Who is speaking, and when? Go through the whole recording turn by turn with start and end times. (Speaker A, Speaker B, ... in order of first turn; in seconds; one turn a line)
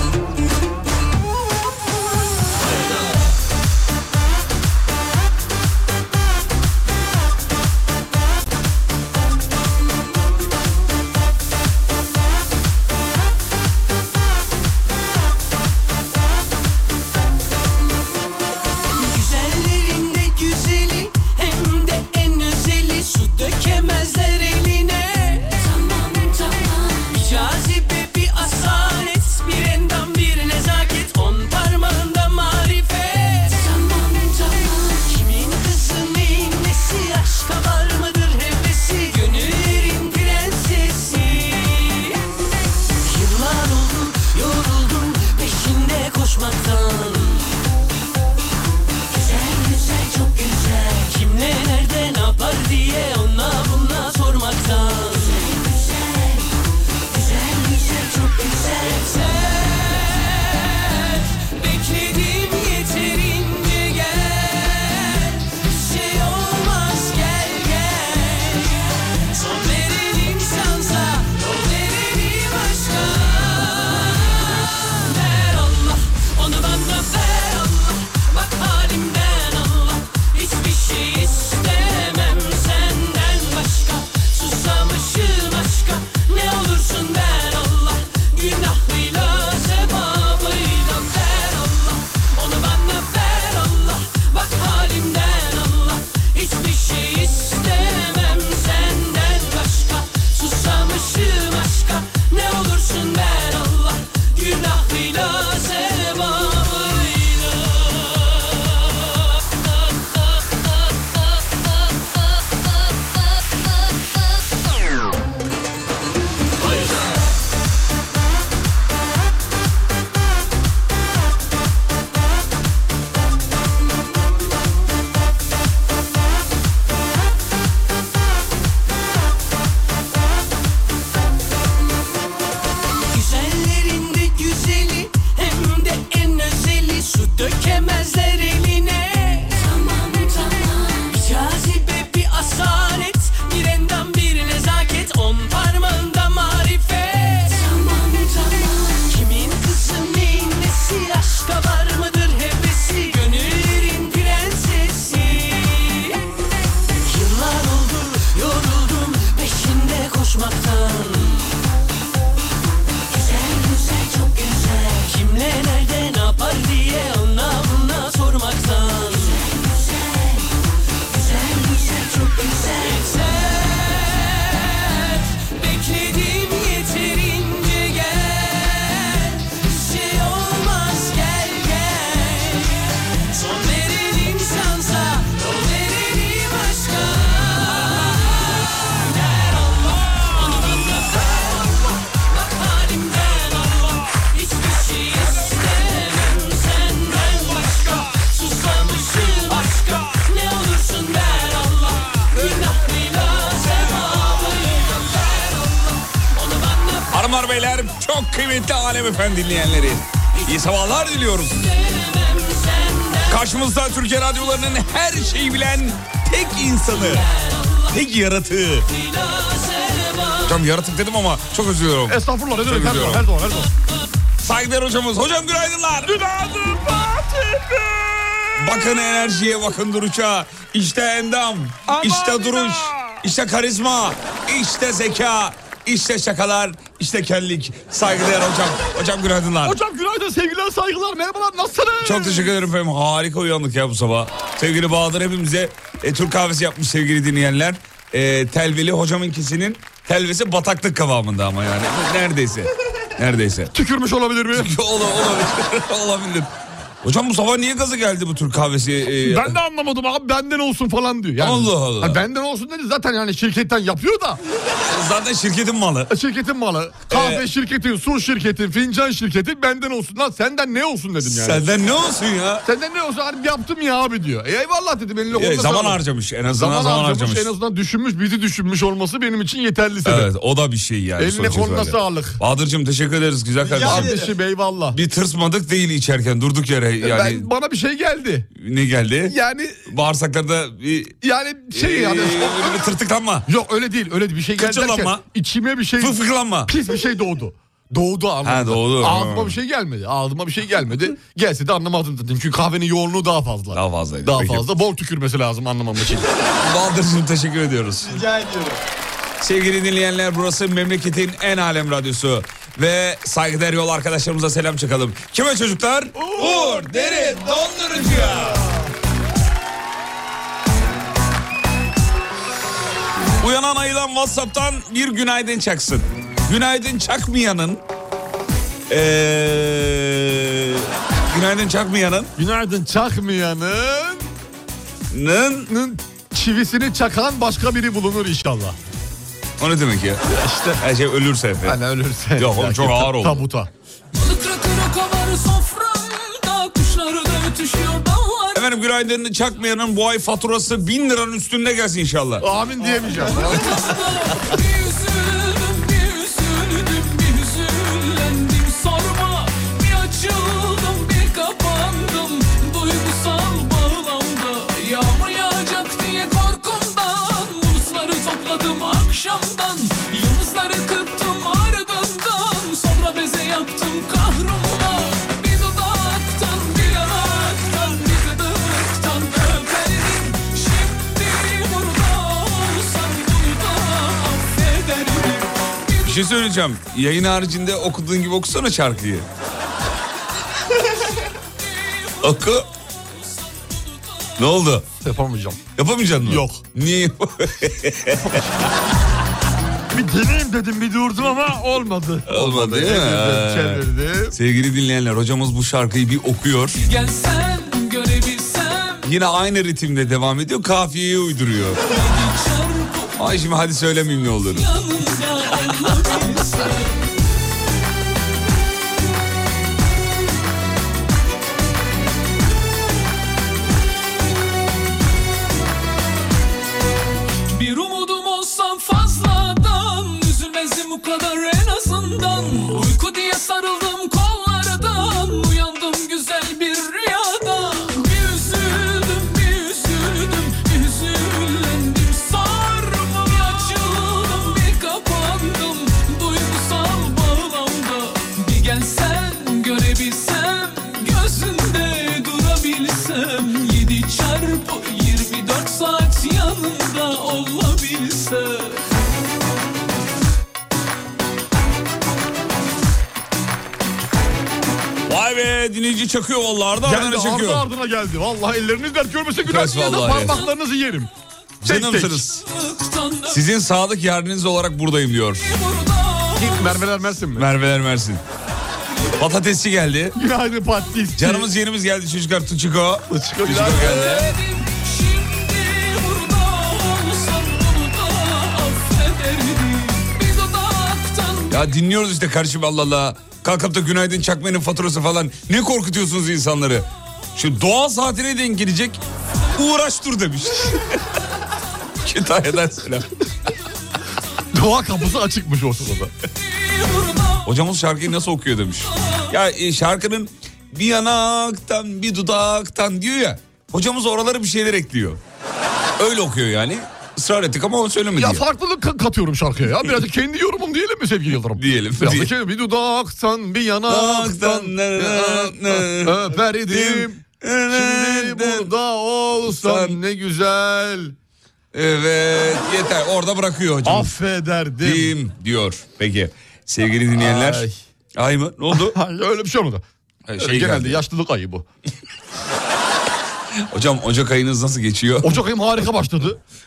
Speaker A: 19.0-42.2
Speaker A: 43.0-47.5
Speaker A: 49.1-56.3
Speaker A: 57.1-60.1
Speaker A: 61.3-74.1
Speaker A: 74.8-107.9
Speaker A: 133.1-156.2
Speaker A: 157.0-161.5
Speaker A: 163.1-169.4
Speaker A: 171.2-174.2
Speaker A: 175.3-188.1
Speaker A: 188.9-207.1
Speaker B: 207.1-211.7
Speaker A: 211.9-213.2
Speaker B: 213.3-217.3
Speaker B: 217.9-218.9
Speaker A: 219.0-220.4
Speaker B: 220.4-223.3
Speaker C: 222.1-223.7
Speaker B: 224.4-226.2
Speaker C: 226.1-228.6
Speaker B: 228.6-239.8
Speaker C: 231.9-233.2
Speaker C: 239.6-242.5
Speaker B: 242.0-253.7
Speaker C: 253.7-254.7
Speaker B: 254.5-256.5
Speaker B: 257.0-259.6
Speaker C: 259.2-264.4
Speaker B: 261.4-262.2
Speaker B: 264.8-266.1
Speaker C: 266.1-271.6
Speaker B: 267.1-267.5
Speaker B: 271.2-272.6
Speaker C: 272.6-276.0
Speaker B: 275.3-277.5
Speaker C: 276.5-280.3
Speaker B: 280.0-284.3
Speaker C: 281.2-282.4
Speaker C: 283.6-285.0
Speaker B: 284.9-287.5
Speaker C: 287.0-288.5
Speaker B: 288.6-291.2
Speaker C: 289.2-289.8
Speaker C: 291.2-292.9
Speaker B: 291.7-293.5
Speaker C: 293.5-296.1
Speaker B: 294.5-295.2
Speaker B: 296.0-296.7
Speaker C: 296.7-306.3
Speaker B: 298.4-299.6
Speaker B: 303.7-304.7
Speaker B: 306.6-308.2
Speaker C: 308.2-308.7
Speaker B: 309.4-318.6
Speaker C: 316.2-317.3
Speaker B: 323.4-327.8
Speaker B: 328.9-332.3
Speaker C: 332.4-334.3
Speaker B: 335.1-335.7
Speaker C: 335.7-338.8
Speaker B: 339.6-340.2
Speaker C: 340.3-340.8
Speaker B: 340.8-341.8
Speaker C: 341.6-343.7
Speaker B: 342.4-343.5
Speaker D: 344.1-348.6
Speaker B: 348.5-352.5
Speaker C: 352.4-353.8
Speaker D: 353.2-386.2
Speaker B: 353.5-353.8
Speaker B: 386.0-389.3
Speaker D: 391.6-394.3
Speaker B: 392.2-392.6
Speaker B: 394.4-394.9
Speaker C: 395.0-395.6
Speaker B: 395.8-398.4
Speaker C: 396.2-396.6
Speaker C: 398.2-398.5
Speaker C: 399.9-404.4
Speaker B: 402.2-406.8
Speaker D: 406.8-409.0
Speaker B: 409.0-411.8
Speaker D: 411.9-413.2
Speaker B: 413.2-414.7
Speaker D: 414.5-416.9
Speaker D: 427.5-458.8
Speaker B: 465.1-467.6
Speaker C: 466.8-471.1
Speaker B: 469.4-470.4
Speaker B: 471.6-472.4
Speaker C: 471.6-472.4
Speaker D: 472.4-473.4
Speaker B: 473.3-475.5
Speaker D: 475.4-476.9
Speaker C: 476.4-477.5
Speaker B: 477.4-478.2
Speaker B: 479.1-480.2
Speaker C: 480.1-481.5
Speaker B: 481.1-484.3
Speaker C: 483.1-484.2
Speaker D: 483.7-491.6
Speaker B: 491.5-499.0
Speaker B: 499.5-501.0
Speaker B: 502.0-503.1
Speaker C: 504.5-506.1
Speaker D: 506.4-507.5
Speaker B: 507.4-515.2
Speaker D: 508.9-509.3
Speaker B: 516.0-518.4
Speaker C: 518.2-531.1
Speaker B: 521.5-522.3
Speaker B: 523.9-528.7
Speaker B: 529.4-530.0
Speaker B: 531.7-534.1
Speaker C: 533.9-535.1
Speaker B: 534.8-539.0
Speaker C: 537.1-537.8
Speaker C: 538.7-539.8
Speaker B: 540.3-541.0
Speaker C: 540.4-541.6
Speaker B: 543.6-545.4
Speaker C: 545.2-546.4